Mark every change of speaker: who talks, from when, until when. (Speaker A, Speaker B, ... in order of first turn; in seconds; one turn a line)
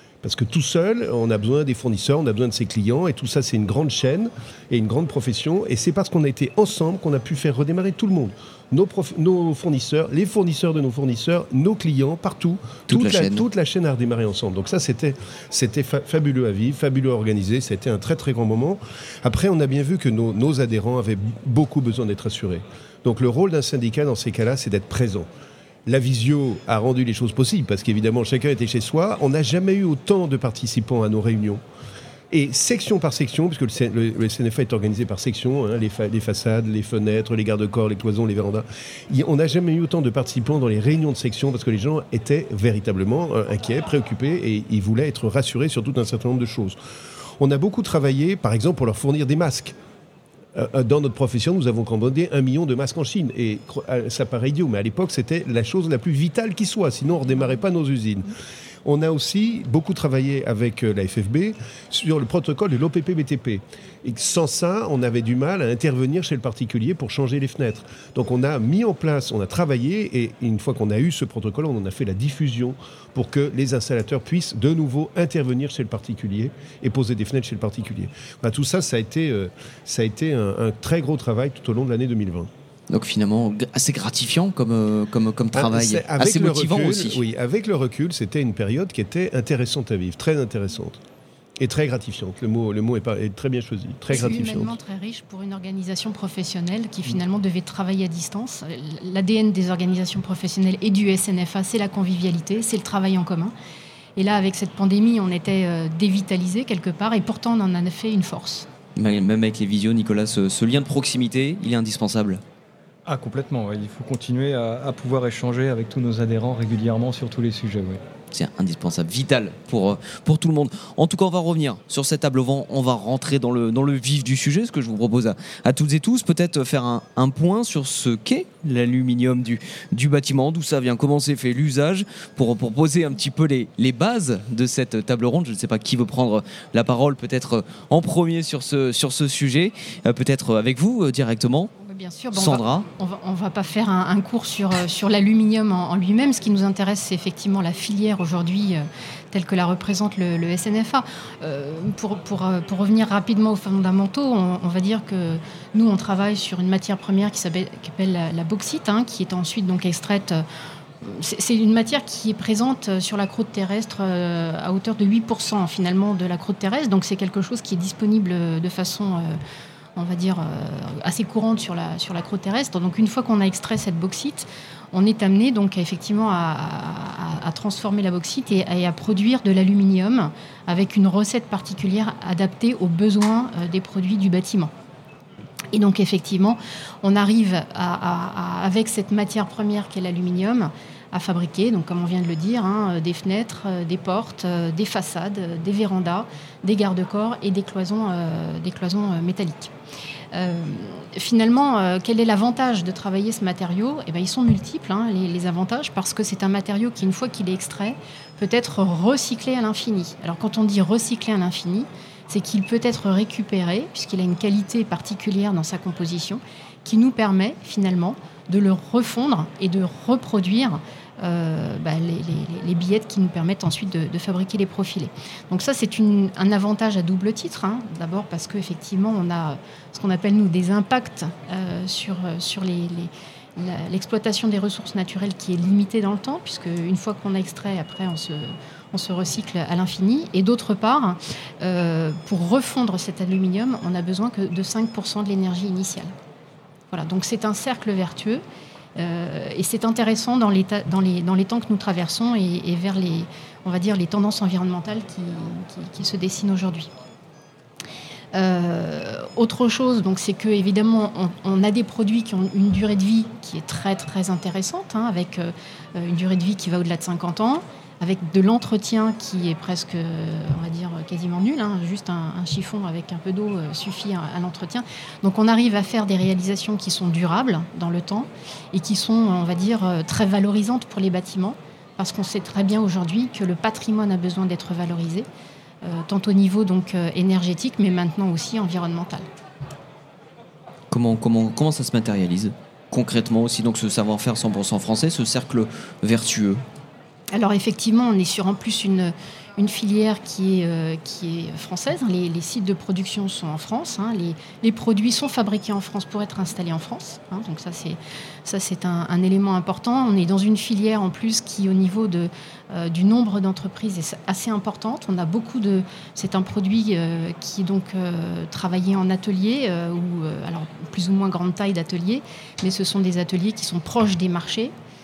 Speaker A: 0.2-25.3
Speaker B: 12.9-13.4
Speaker A: 25.9-31.6
Speaker A: 32.3-46.8
Speaker A: 47.4-49.7
Speaker A: 50.5-58.3
Speaker A: 58.8-82.5
Speaker B: 82.9-87.2
Speaker A: 85.5-91.0
Speaker A: 91.6-94.7
Speaker C: 94.1-103.5
Speaker C: 104.2-108.7
Speaker B: 109.0-112.4
Speaker D: 113.1-118.0
Speaker B: 118.3-141.7
Speaker C: 141.8-160.4
Speaker B: 142.3-142.8
Speaker C: 161.0-169.4
Speaker C: 169.9-184.7
Speaker C: 185.7-199.7
Speaker C: 200.3-246.1
Speaker C: 246.9-248.4
Speaker C: 248.9-256.9
Speaker C: 258.3-285.3
Speaker C: 285.8-289.2
Speaker B: 290.9-296.6
Speaker C: 297.3-324.7